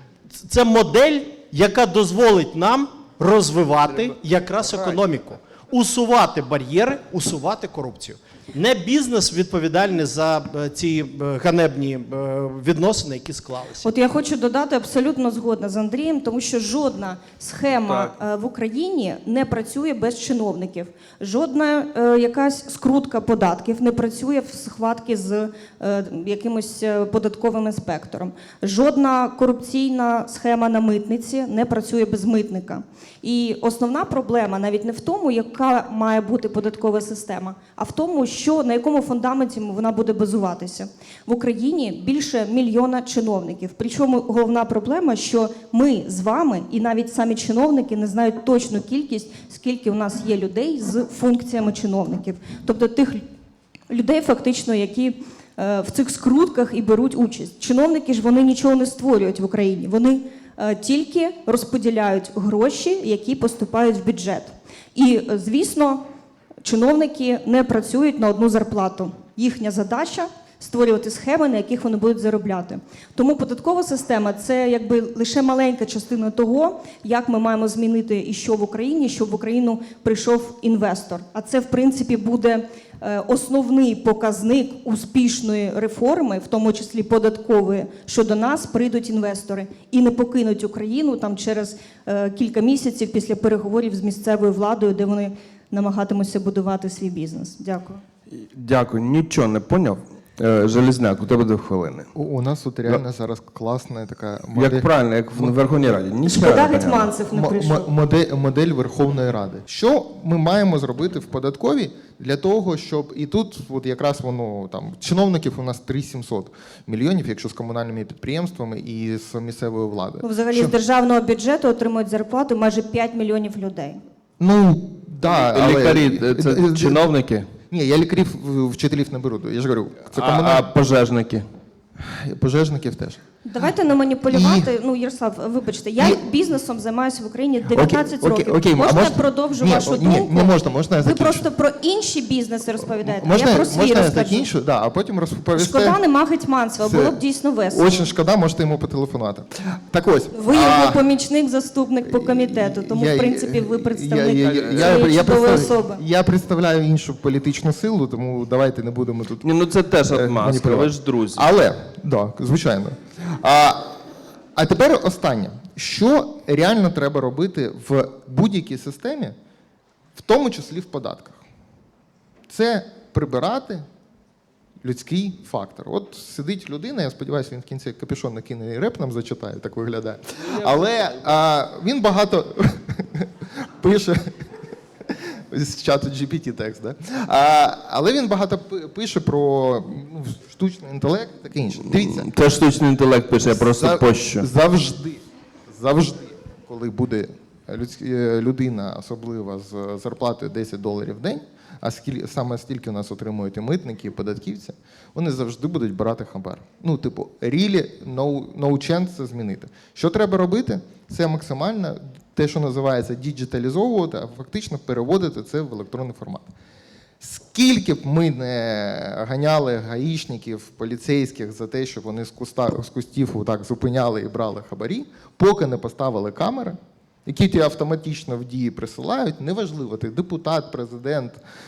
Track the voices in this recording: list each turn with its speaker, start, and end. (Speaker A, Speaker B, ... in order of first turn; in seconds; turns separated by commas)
Speaker A: 0.4-13.9, Speaker B: 4.7-5.0, Speaker C: 13.8-53.2, Speaker B: 17.9-18.1, Speaker C: 53.9-66.0, Speaker C: 66.6-98.0, Speaker B: 98.3-102.1, Speaker D: 102.1-105.5, Speaker B: 104.5-107.1, Speaker C: 106.2-107.9, Speaker D: 107.3-120.7, Speaker C: 120.2-124.0, Speaker D: 124.4-127.1, Speaker B: 125.2-127.5, Speaker D: 127.7-130.7, Speaker B: 130.1-131.4, Speaker D: 132.0-133.2, Speaker C: 133.4-144.5, Speaker D: 134.3-134.7, Speaker D: 137.7-141.5, Speaker D: 143.0-146.0, Speaker C: 145.6-147.9, Speaker D: 146.8-147.2, Speaker D: 147.7-151.0, Speaker C: 150.3-156.0, Speaker D: 152.1-164.0, Speaker B: 154.4-155.1, Speaker B: 159.4-161.5, Speaker D: 164.5-169.3, Speaker D: 170.1-171.4, Speaker D: 172.5-173.8, Speaker D: 174.8-184.5, Speaker D: 185.1-192.3, Speaker B: 191.9-194.5, Speaker D: 193.5-216.5, Speaker D: 217.2-231.4